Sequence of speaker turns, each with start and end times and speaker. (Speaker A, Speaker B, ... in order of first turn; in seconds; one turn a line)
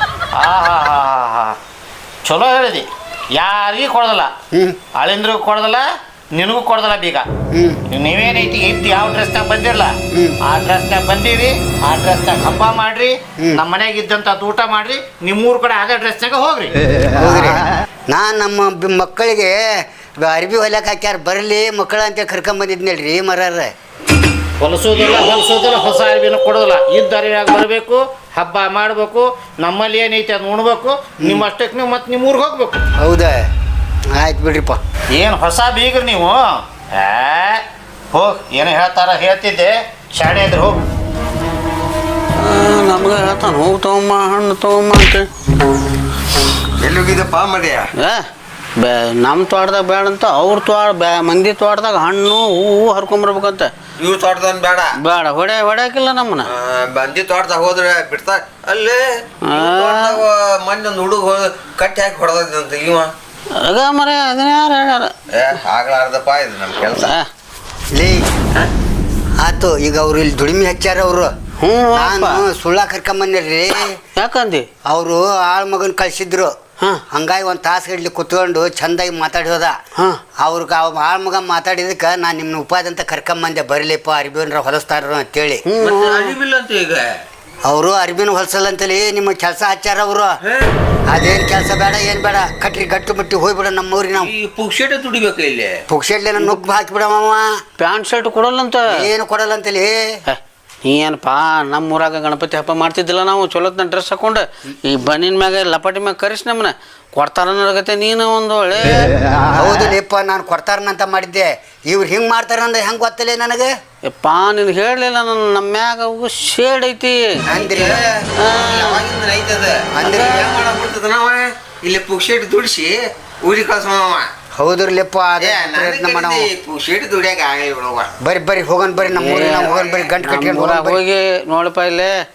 Speaker A: 0.4-1.6
Speaker A: 2.3-2.9
Speaker A: 3.4-4.3
Speaker A: 5.0-5.8
Speaker A: 6.4-7.2
Speaker B: 7.5-7.8
Speaker A: 7.9-9.9
Speaker A: 10.4-16.7
Speaker B: 17.2-23.7
Speaker A: 24.6-32.8
Speaker B: 33.0-33.4
Speaker B: 34.2-34.8
Speaker A: 35.2-37.6
Speaker A: 38.1-40.8
Speaker C: 42.4-45.3
Speaker D: 46.8-47.9
Speaker C: 48.0-48.2
Speaker C: 48.8-53.7
Speaker D: 54.0-54.9
Speaker C: 55.0-56.5
Speaker D: 56.5-63.1
Speaker C: 59.5-60.2
Speaker C: 63.6-65.1
Speaker D: 65.3-67.1
Speaker C: 67.0-67.3
Speaker B: 68.0-68.2
Speaker B: 69.4-71.3
Speaker C: 71.6-72.4
Speaker B: 71.9-74.0
Speaker C: 74.2-74.7
Speaker B: 74.9-76.5
Speaker B: 77.1-79.8
Speaker B: 80.4-85.6
Speaker C: 85.7-86.3
Speaker D: 85.8-87.2
Speaker B: 87.7-90.4
Speaker D: 90.4-90.7
Speaker B: 91.1-94.3
Speaker D: 94.2-95.8
Speaker B: 95.9-97.5
Speaker C: 96.4-96.8
Speaker C: 97.8-98.8
Speaker B: 98.9-100.0
Speaker C: 100.3-109.1
Speaker B: 109.5-113.7
Speaker C: 114.1-117.4
Speaker D: 117.5-124.3
Speaker B: 117.5-118.0
Speaker C: 118.4-119.0
Speaker B: 120.0-120.7
Speaker B: 124.6-126.5
Speaker D: 125.4-128.1
Speaker B: 128.2-131.0
Speaker C: 129.1-132.1
Speaker D: 129.7-130.1